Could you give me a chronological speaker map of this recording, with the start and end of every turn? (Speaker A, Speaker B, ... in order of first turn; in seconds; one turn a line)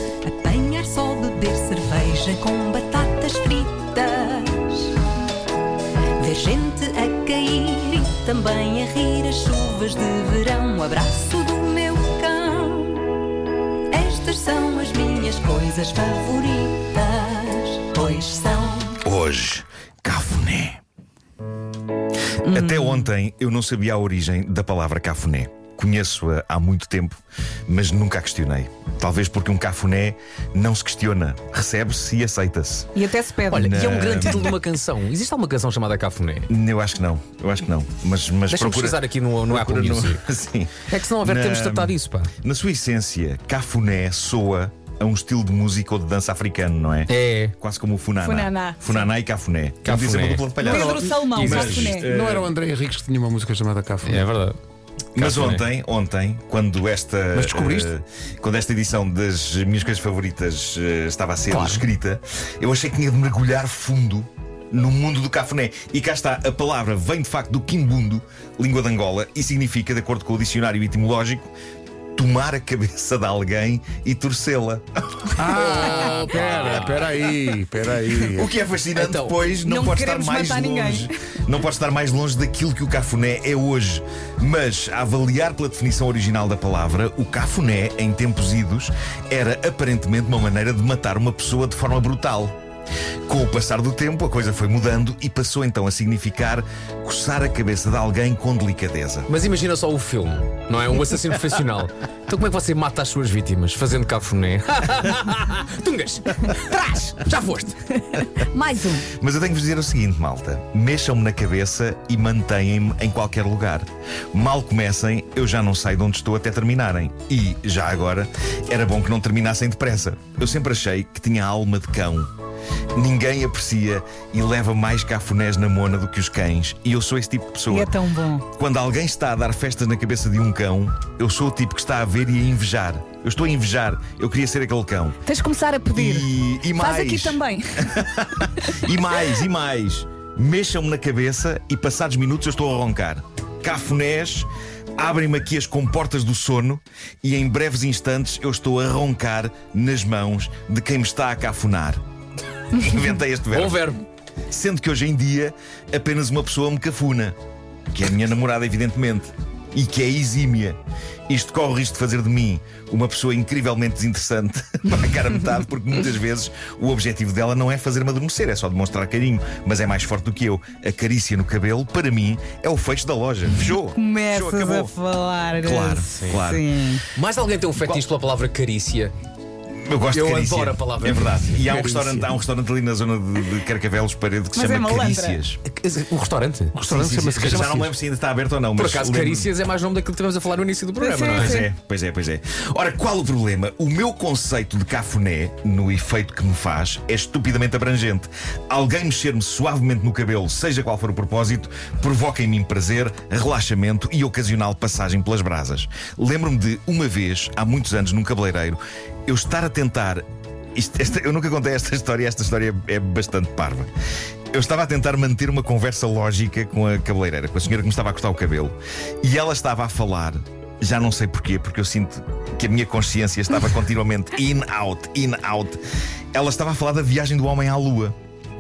Speaker A: 0.2-4.9
Speaker A: 6.2-13.1
Speaker A: 13.9-19.0
Speaker B: 19.0-20.8
Speaker B: 22.4-33.0
Speaker C: 22.5-23.1
Speaker C: 33.0-33.7
Speaker D: 33.5-36.5
Speaker B: 33.6-34.6
Speaker B: 36.5-52.5
Speaker D: 38.5-40.2
Speaker D: 40.9-42.3
Speaker D: 47.1-47.5
Speaker C: 48.2-49.1
Speaker D: 49.8-52.1
Speaker C: 50.6-52.1
Speaker E: 50.6-54.3
Speaker D: 54.0-54.6
Speaker D: 55.2-55.7
Speaker B: 55.2-71.5
Speaker E: 57.3-57.9
Speaker E: 61.5-61.9
Speaker B: 72.2-75.4
Speaker E: 75.3-78.5
Speaker D: 75.5-77.2
Speaker B: 78.3-92.6
Speaker D: 79.0-79.5
Speaker C: 79.6-81.1
Speaker B: 93.3-99.3
Speaker D: 99.3-108.0
Speaker C: 108.1-109.1
Speaker B: 109.0-122.3
Speaker B: 123.0-128.0
Speaker C: 127.7-128.5
Speaker B: 128.5-135.3
Speaker C: 135.3-137.8
Speaker B: 135.9-152.0
Speaker B: 152.7-153.9
Speaker D: 153.5-154.0
Speaker B: 154.5-157.4
Speaker B: 157.9-174.9
Speaker C: 173.9-177.0
Speaker B: 175.6-176.7
Speaker D: 177.2-179.1
Speaker B: 179.8-185.6
Speaker D: 180.1-182.3
Speaker C: 184.5-185.4
Speaker D: 185.7-187.8
Speaker E: 186.7-187.9
Speaker B: 186.9-189.5
Speaker D: 188.8-191.6
Speaker C: 191.0-191.7
Speaker B: 191.4-210.2
Speaker B: 210.8-213.9
Speaker B: 214.5-225.8
Speaker B: 226.3-228.2